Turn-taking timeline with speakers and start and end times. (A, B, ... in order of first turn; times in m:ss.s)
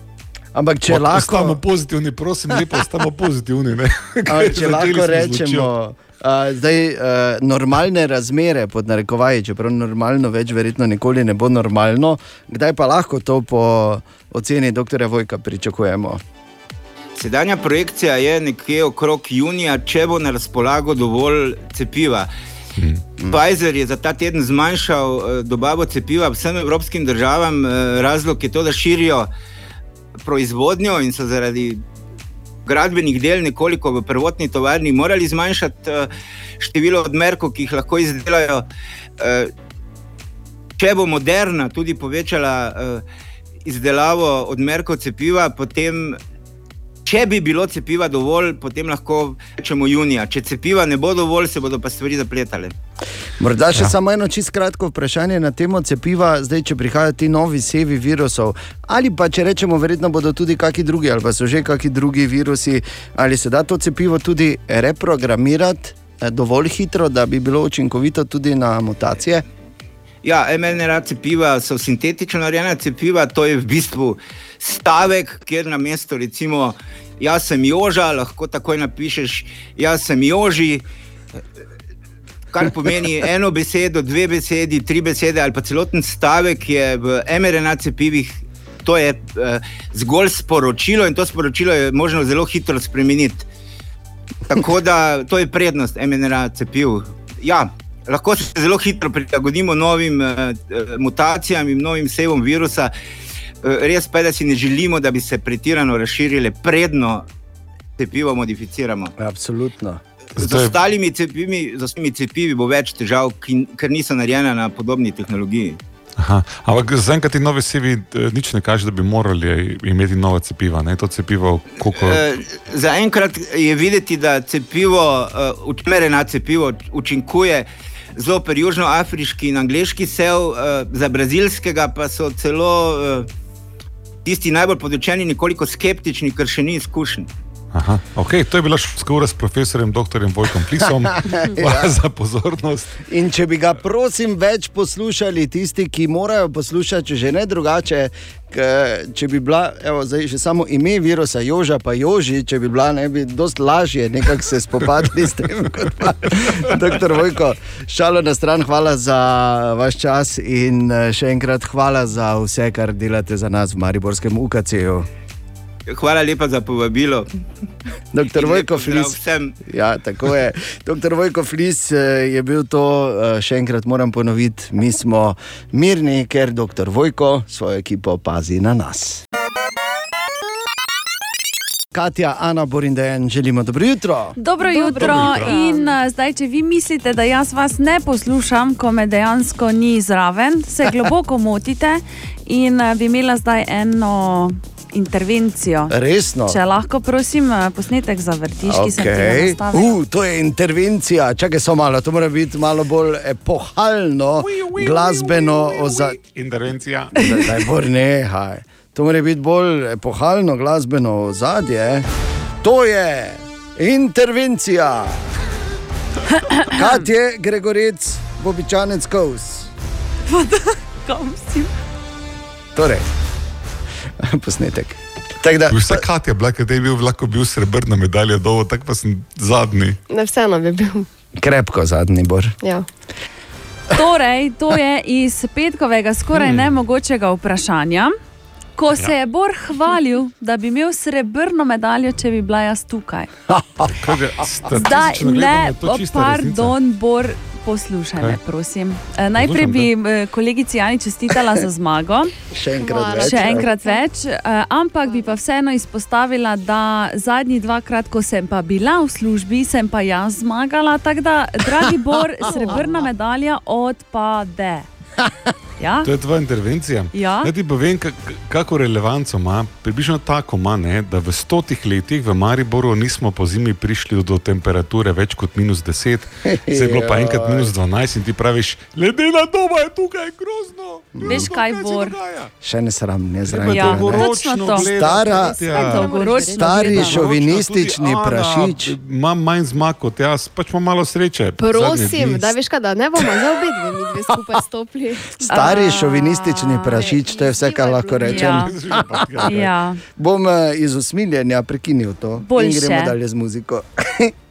0:00.6-0:01.6 A
0:00.9-0:05.7 B
0:04.3-0:16.2 A
0:17.2-0:22.3 C
0:22.8-0:23.0 B
0:23.3-0:29.3 C
0:30.2-0:31.8 C
0:32.7-0:38.6 C
0:39.2-0:39.5 C
0:40.8-0:43.0 C
0:43.6-0:46.2 C
0:47.0-0:52.8 C
0:53.4-1:09.4 A
1:10.2-1:20.8 C
1:22.5-1:33.5 C
1:34.5-1:42.9 C
1:43.6-1:47.3 C
1:48.0-1:49.1 C
1:49.2-1:50.0 A
1:50.4-1:55.8 C
1:50.4-1:50.8 B
1:56.2-2:02.2 B
2:01.9-2:13.3 C
2:14.2-2:17.3 C
2:17.7-2:23.0 B
2:21.2-2:21.9 A
2:23.1-2:45.1 A
2:45.9-2:47.3 C
2:48.1-2:59.2 A
2:48.3-2:49.6 C
3:01.9-3:04.4 A
3:04.4-3:16.0 D
3:04.9-3:05.6 A
3:04.9-3:05.8 B
3:15.9-3:16.6 A
3:16.5-3:20.0 D
3:18.6-3:26.2 A
3:24.4-3:27.4 B
3:27.2-3:32.1 A
3:32.6-3:35.2 A
3:36.4-3:36.8 D
3:36.7-3:39.7 A
3:40.3-3:41.7 D
3:42.8-3:43.0 A
3:44.2-3:46.0 A
3:45.7-3:50.0 B
3:50.1-3:51.1 E
3:51.4-3:52.6 A
3:53.9-3:58.1 D
3:56.3-3:56.7 B
3:58.8-4:03.3 D
4:03.5-4:03.9 A
4:03.9-4:06.8 B
4:04.7-4:12.3 D
4:09.4-4:09.9 B
4:12.5-4:13.7 A
4:12.8-4:14.1 E
4:13.2-4:24.9 D
4:15.0-4:15.4 E
4:22.4-4:23.1 E
4:25.8-4:26.1 D
4:26.0-4:42.5 B
4:27.1-4:27.5 D
4:36.4-4:37.7 A
4:41.2-4:41.5 A
4:41.2-4:42.2 D
4:42.6-4:46.0 A
4:43.5-4:52.6 B
4:43.7-4:47.4 D
4:45.3-4:46.8 E
4:46.5-4:49.0 A
4:51.6-4:55.8 E
4:55.4-4:59.5 A
4:55.5-4:57.2 D
4:56.8-4:58.5 E
4:58.2-4:58.8 D
4:58.5-4:59.7 B
4:59.4-5:00.0 D
5:00.2-5:04.3 A
5:02.4-5:03.2 D